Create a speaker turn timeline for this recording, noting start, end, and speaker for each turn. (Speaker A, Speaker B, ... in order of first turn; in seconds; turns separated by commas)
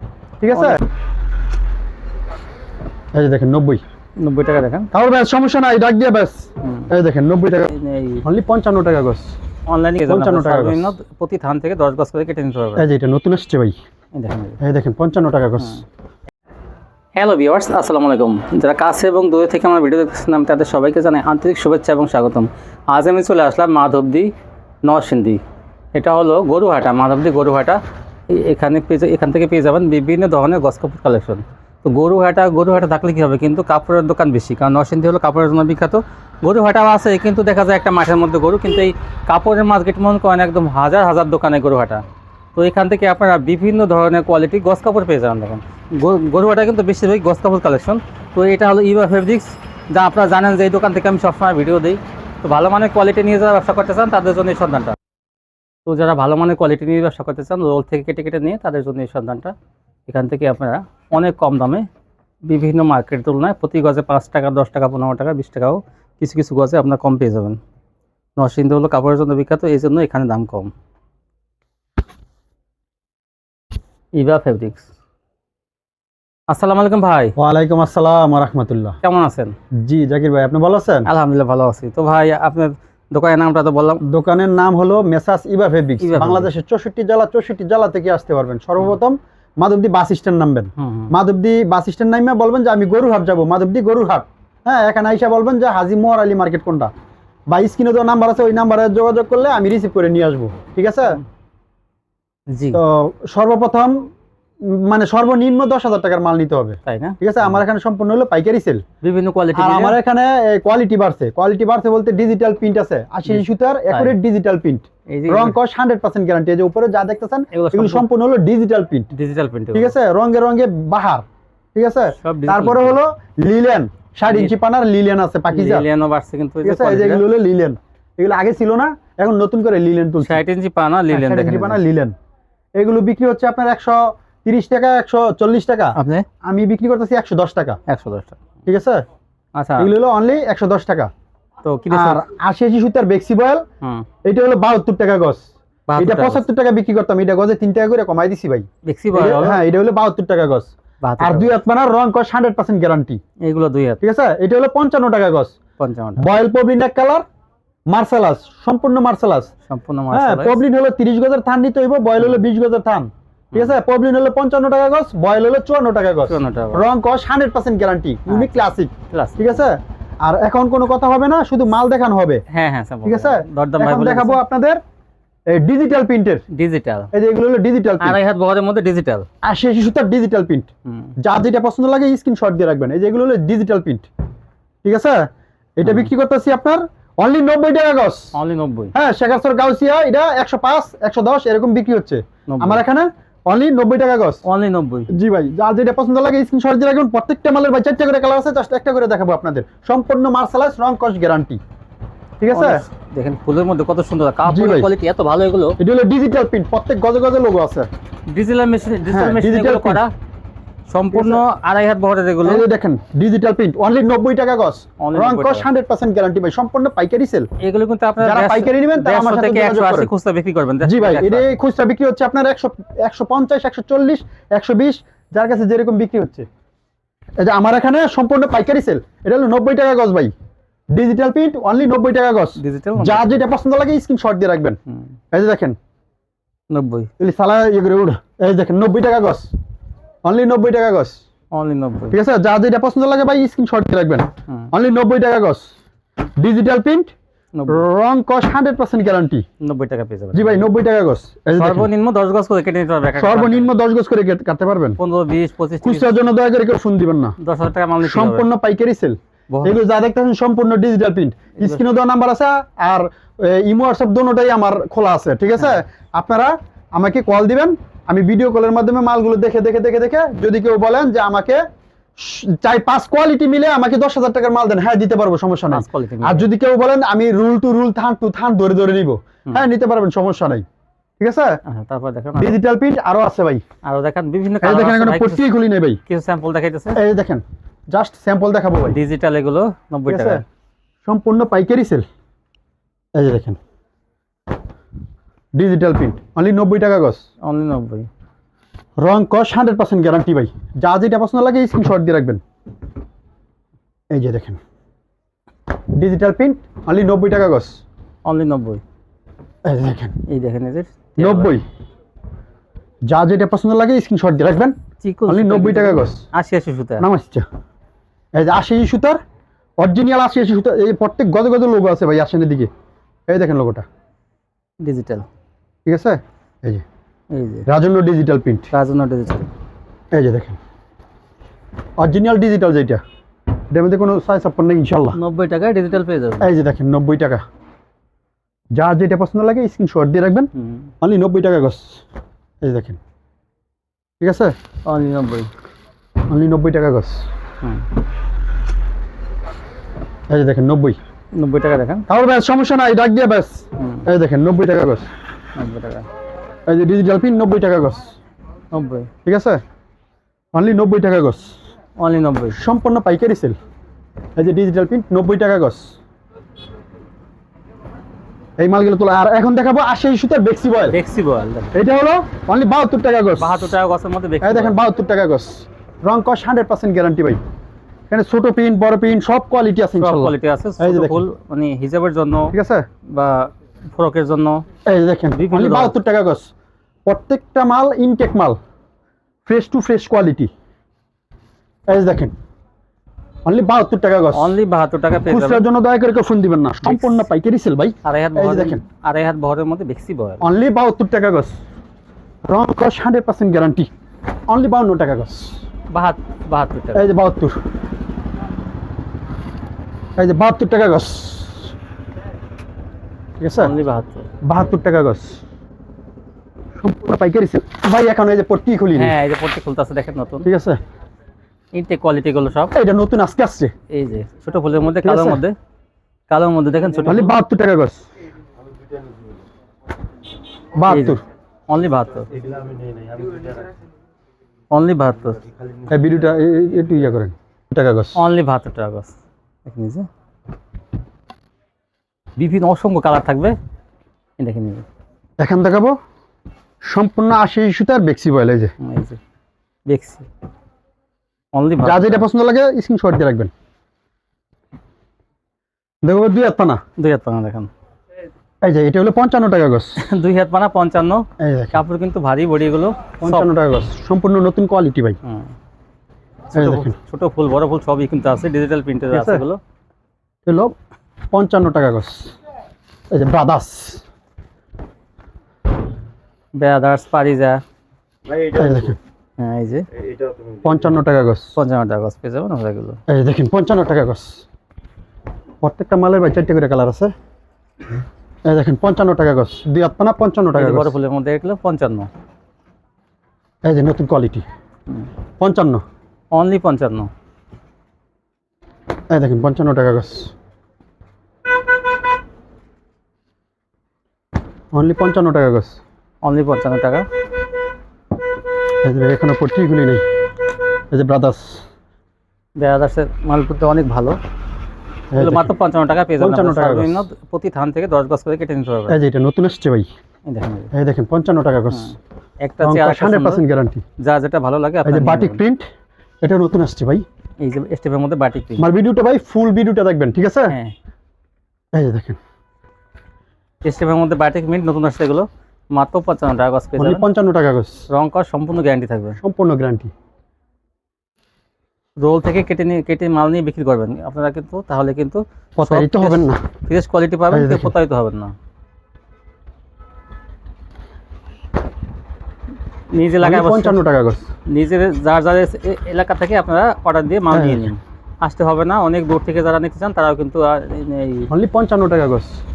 Speaker A: 0.4-0.8, Speaker B: 0.5-0.8, Speaker A: 3.1-3.8, Speaker B: 4.2-4.9, Speaker A: 4.9-9.3, Speaker B: 6.6-6.9, Speaker B: 7.7-8.2, Speaker B: 9.7-12.8, Speaker A: 10.1-10.9, Speaker A: 12.8-13.8, Speaker B: 14.1-14.6, Speaker A: 14.6-15.8, Speaker B: 17.2-24.3, Speaker B: 24.9-25.4, Speaker B: 25.9-42.0, Speaker B: 42.5-55.0, Speaker B: 55.9-59.5, Speaker B: 60.1-61.9, Speaker B: 62.5-67.6, Speaker B: 68.4-70.7, Speaker B: 74.1-74.9, Speaker B: 76.5-77.3, Speaker A: 77.4-79.0, Speaker B: 79.0-79.5, Speaker A: 79.8-81.1, Speaker B: 81.0-84.0, Speaker A: 84.0-96.9, Speaker B: 86.0-86.5, Speaker B: 90.8-91.1, Speaker A: 97.5-101.2, Speaker B: 102.5-102.8, Speaker A: 102.7-104.1, Speaker A: 104.7-108.8, Speaker B: 106.8-107.6, Speaker B: 109.0-110.0, Speaker A: 109.5-119.1, Speaker B: 113.2-114.2, Speaker B: 115.1-115.6, Speaker B: 117.5-118.1, Speaker B: 119.1-119.9, Speaker A: 119.7-125.8, Speaker B: 122.2-123.0, Speaker B: 124.3-124.5, Speaker B: 125.5-127.2, Speaker A: 126.6-130.4, Speaker B: 130.2-131.8, Speaker A: 131.1-132.2, Speaker A: 132.8-137.8, Speaker B: 136.0-136.2, Speaker B: 137.9-138.3, Speaker A: 138.7-139.0, Speaker B: 139.6-139.9, Speaker A: 139.8-141.1, Speaker B: 141.6-142.2, Speaker A: 141.9-143.6, Speaker A: 144.2-145.5, Speaker B: 145.9-146.4, Speaker A: 146.0-153.2, Speaker B: 148.8-149.6, Speaker B: 151.0-151.6, Speaker B: 153.4-154.0, Speaker A: 154.0-155.6, Speaker B: 155.8-156.3, Speaker A: 156.2-157.2, Speaker A: 157.9-159.5, Speaker B: 159.7-160.6, Speaker A: 160.1-172.4, Speaker B: 166.3-166.8, Speaker B: 168.3-169.6, Speaker B: 172.5-174.4, Speaker A: 173.1-174.8, Speaker A: 175.5-176.4, Speaker B: 176.5-177.1, Speaker A: 177.1-178.2, Speaker B: 178.0-179.3, Speaker A: 179.4-180.7, Speaker B: 180.9-181.1, Speaker A: 181.2-184.1, Speaker A: 184.8-188.3, Speaker B: 185.8-186.1, Speaker B: 188.3-188.9, Speaker A: 188.9-194.4, Speaker B: 192.5-192.8, Speaker B: 194.4-195.1, Speaker A: 195.1-201.6, Speaker A: 202.4-202.8, Speaker B: 202.5-205.8, Speaker A: 204.4-204.9, Speaker A: 205.8-207.9, Speaker B: 208.3-210.1, Speaker A: 209.1-210.0, Speaker B: 210.9-212.7, Speaker A: 211.1-211.4, Speaker A: 212.4-217.5, Speaker B: 215.0-215.7, Speaker B: 217.6-221.5, Speaker A: 218.2-220.1, Speaker A: 220.8-226.5, Speaker A: 227.4-230.3, Speaker A: 230.9-234.8, Speaker B: 232.6-233.4, Speaker A: 235.3-235.8, Speaker B: 236.7-237.1, Speaker A: 237.2-239.5, Speaker A: 240.2-241.2, Speaker B: 241.5-242.2, Speaker A: 242.1-245.7, Speaker A: 246.4-247.1, Speaker B: 247.6-247.8, Speaker A: 247.7-249.4, Speaker B: 249.6-250.7, Speaker A: 250.3-251.9, Speaker B: 251.5-253.7, Speaker A: 253.2-255.0, Speaker B: 255.0-256.1, Speaker A: 255.8-257.4, Speaker B: 257.4-258.5, Speaker A: 258.0-271.6, Speaker A: 272.2-280.6, Speaker B: 275.7-276.5, Speaker A: 281.2-281.6, Speaker B: 281.6-282.6, Speaker A: 282.4-283.6, Speaker B: 283.8-285.4, Speaker A: 284.6-286.0, Speaker B: 286.1-287.0, Speaker A: 286.9-289.0, Speaker B: 288.9-290.4, Speaker A: 290.1-290.4, Speaker A: 291.0-292.1, Speaker A: 293.1-293.6, Speaker A: 295.6-297.2, Speaker B: 297.4-298.1, Speaker A: 299.0-302.4, Speaker A: 304.1-304.6, Speaker A: 305.9-307.8, Speaker B: 308.2-308.8, Speaker A: 309.6-310.2, Speaker B: 310.3-311.5, Speaker A: 311.2-311.6, Speaker A: 313.1-314.8, Speaker B: 315.0-317.1, Speaker A: 315.3-316.2, Speaker A: 317.0-317.4, Speaker A: 318.4-319.2, Speaker A: 319.8-322.7, Speaker A: 323.3-323.9, Speaker B: 324.8-325.3, Speaker A: 325.9-326.8, Speaker B: 327.3-327.7, Speaker A: 327.7-328.7, Speaker B: 328.7-329.5, Speaker A: 330.1-330.6, Speaker A: 332.0-333.0, Speaker A: 333.7-335.2, Speaker B: 335.1-336.5, Speaker A: 336.4-337.4, Speaker A: 338.8-340.5, Speaker B: 340.5-340.9, Speaker A: 341.0-342.0, Speaker A: 342.6-343.0, Speaker A: 344.2-344.5, Speaker B: 344.9-345.5, Speaker A: 346.3-347.2, Speaker A: 350.3-351.0, Speaker B: 351.3-352.1, Speaker A: 352.1-355.0, Speaker B: 353.8-354.0, Speaker B: 355.6-356.1, Speaker A: 356.7-358.1, Speaker B: 358.7-359.1, Speaker A: 359.2-359.6, Speaker A: 360.5-361.5, Speaker B: 362.0-362.6, Speaker A: 362.5-363.6, Speaker A: 364.4-365.9, Speaker A: 368.6-370.9, Speaker B: 370.9-371.7, Speaker A: 371.7-373.7, Speaker B: 373.4-374.8, Speaker A: 374.4-377.4, Speaker A: 378.1-381.2, Speaker B: 380.0-382.5, Speaker A: 382.5-382.9, Speaker B: 383.1-384.6, Speaker A: 384.9-386.5, Speaker B: 385.3-386.0, Speaker A: 387.1-388.6, Speaker A: 389.4-390.5, Speaker A: 391.9-392.3, Speaker A: 393.4-394.5, Speaker B: 394.3-395.6, Speaker A: 395.2-398.8, Speaker B: 396.8-397.3, Speaker B: 398.0-400.4, Speaker A: 400.4-401.5, Speaker A: 402.4-403.9, Speaker A: 404.5-405.6, Speaker B: 405.9-407.1, Speaker A: 406.9-407.6, Speaker A: 410.2-411.7, Speaker A: 413.4-413.7, Speaker B: 413.6-414.3, Speaker A: 414.4-415.4, Speaker A: 416.8-419.1, Speaker B: 418.9-420.5, Speaker A: 420.4-420.8, Speaker B: 421.7-422.7, Speaker A: 422.7-423.7, Speaker B: 423.9-425.6, Speaker A: 425.0-425.4, Speaker B: 426.3-427.4, Speaker A: 427.1-428.0, Speaker A: 430.8-431.2, Speaker B: 430.9-431.2, Speaker B: 431.7-432.3, Speaker B: 434.7-435.4, Speaker A: 435.9-438.2, Speaker B: 438.1-439.1, Speaker B: 439.6-440.1, Speaker B: 442.4-443.5, Speaker B: 444.4-444.8, Speaker A: 445.4-445.9, Speaker A: 446.8-448.7, Speaker B: 448.8-449.2, Speaker B: 449.9-450.3, Speaker B: 451.5-452.3, Speaker A: 451.8-453.5, Speaker A: 456.0-456.8, Speaker B: 457.0-457.7, Speaker A: 458.6-459.9, Speaker B: 460.0-463.5, Speaker A: 461.4-461.8, Speaker A: 463.2-465.2, Speaker B: 465.2-465.5, Speaker B: 466.5-469.6, Speaker A: 466.5-466.9, Speaker A: 469.1-469.4, Speaker A: 470.4-470.7, Speaker A: 471.3-472.4, Speaker A: 473.1-474.0, Speaker B: 476.6-477.6, Speaker A: 478.4-479.0, Speaker B: 479.4-479.9, Speaker A: 480.6-481.5, Speaker B: 481.6-483.0, Speaker A: 483.1-484.4, Speaker A: 485.6-487.1, Speaker A: 488.4-490.9, Speaker B: 490.5-492.1, Speaker A: 493.6-494.4, Speaker A: 495.4-495.8, Speaker B: 496.3-497.1, Speaker A: 499.1-500.3, Speaker A: 504.7-505.8, Speaker B: 506.2-507.1, Speaker A: 508.8-510.0, Speaker A: 510.9-511.6, Speaker B: 512.6-514.2, Speaker A: 515.1-515.5, Speaker B: 515.1-519.0, Speaker A: 516.2-517.0, Speaker A: 518.9-519.9, Speaker B: 520.3-520.7, Speaker A: 520.7-522.0, Speaker B: 521.7-523.4, Speaker A: 522.6-523.8, Speaker B: 524.0-525.4, Speaker A: 524.9-525.7, Speaker A: 526.2-527.0, Speaker B: 527.4-528.6, Speaker A: 528.6-530.5, Speaker B: 530.5-530.7, Speaker A: 531.7-532.2, Speaker B: 533.6-537.0, Speaker A: 536.8-537.9, Speaker B: 537.9-539.2, Speaker A: 539.2-539.9, Speaker B: 542.0-548.3, Speaker A: 545.6-546.4, Speaker A: 547.3-547.7, Speaker B: 552.9-553.8, Speaker A: 553.2-554.3, Speaker B: 554.5-561.3, Speaker A: 557.3-557.7, Speaker A: 561.3-562.4